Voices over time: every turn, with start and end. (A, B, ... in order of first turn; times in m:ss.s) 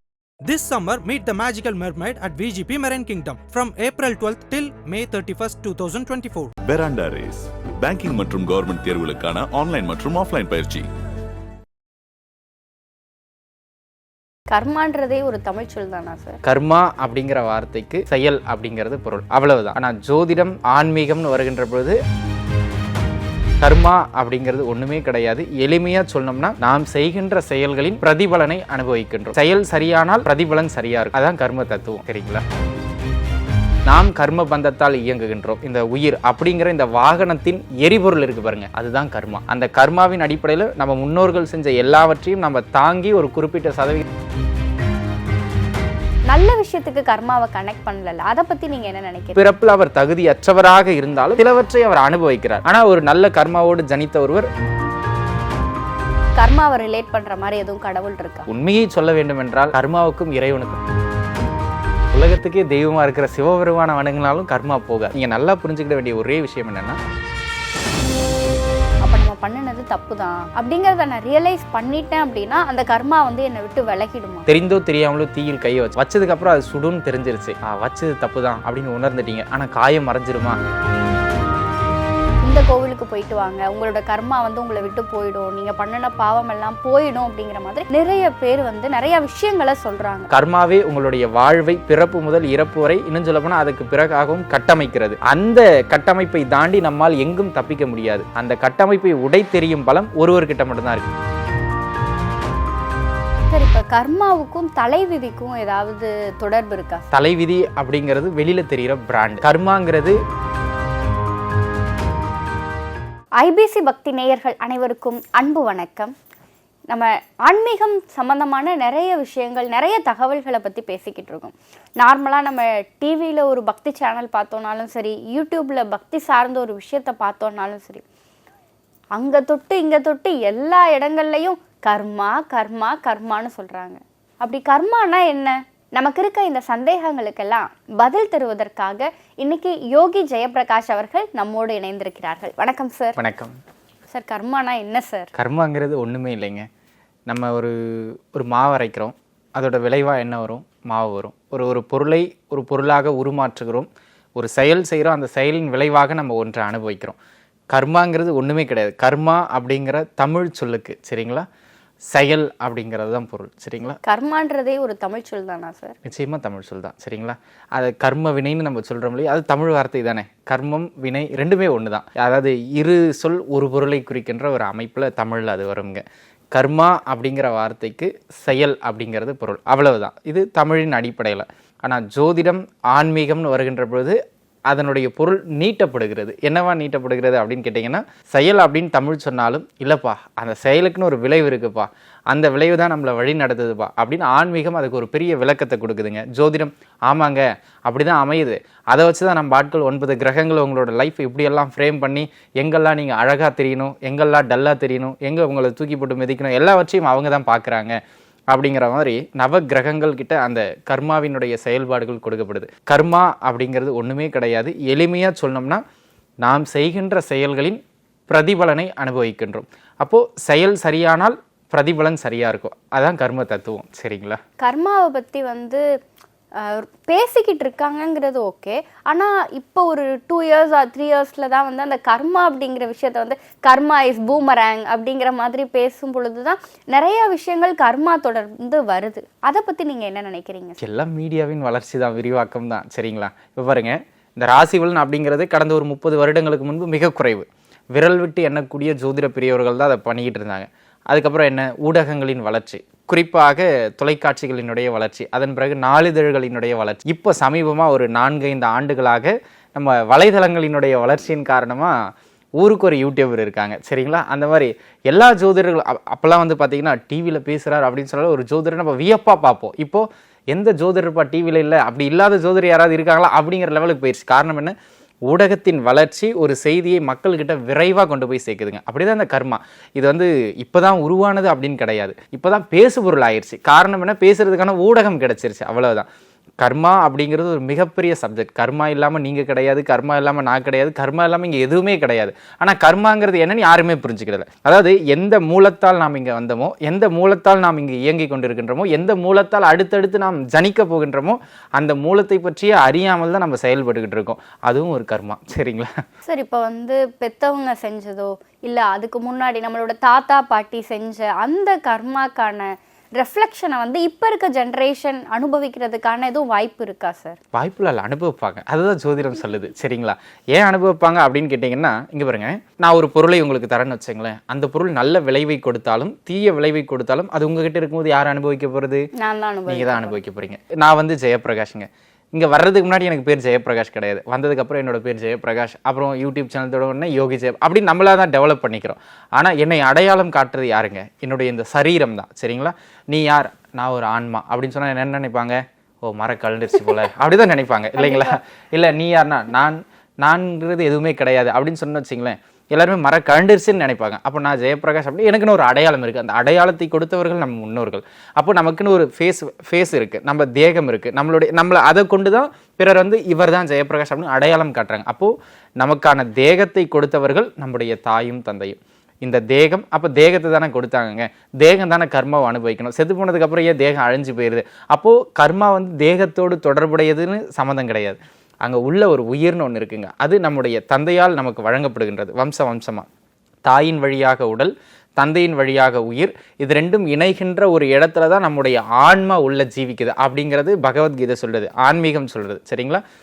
0:00.4-0:06.5 A
0:06.6-0:10.9 B
0:14.5-0:16.4 C
0:16.4-0:22.0 D
0:23.6-0:32.4 D
0:33.9-0:44.0 D
0:46.3-0:49.4 C
0:49.4-0:54.5 D
0:56.4-0:58.5 C
0:58.5-1:00.8 D
1:02.1-1:07.0 D
1:09.0-1:14.5 C
1:14.5-1:20.6 D
1:22.4-1:30.3 C
1:30.3-1:41.1 D
1:43.5-1:47.1 C
1:47.1-1:50.2 D
1:53.4-1:56.1 C
1:56.9-2:08.0 C
2:09.2-2:23.2 C
2:23.2-2:23.6 D
2:24.1-2:25.3 C
2:25.4-2:26.7 D
2:27.3-2:37.2 D
2:37.7-2:41.5 D
2:42.1-2:44.0 D
2:44.0-2:46.0 C
2:46.0-2:56.0 D
2:56.5-3:04.2 D
3:04.7-3:28.0 D
3:28.5-3:35.8 D
3:36.4-3:44.4 D
3:44.6-3:45.8 C
3:46.6-4:00.8 C
4:00.8-4:22.0 D
4:22.6-4:34.8 D
4:35.3-4:46.1 D
4:46.6-5:05.9 D
5:06.3-5:17.4 C
5:17.5-5:29.0 D
5:29.2-5:30.2 C
5:29.7-6:23.1 D
6:23.6-6:33.0 D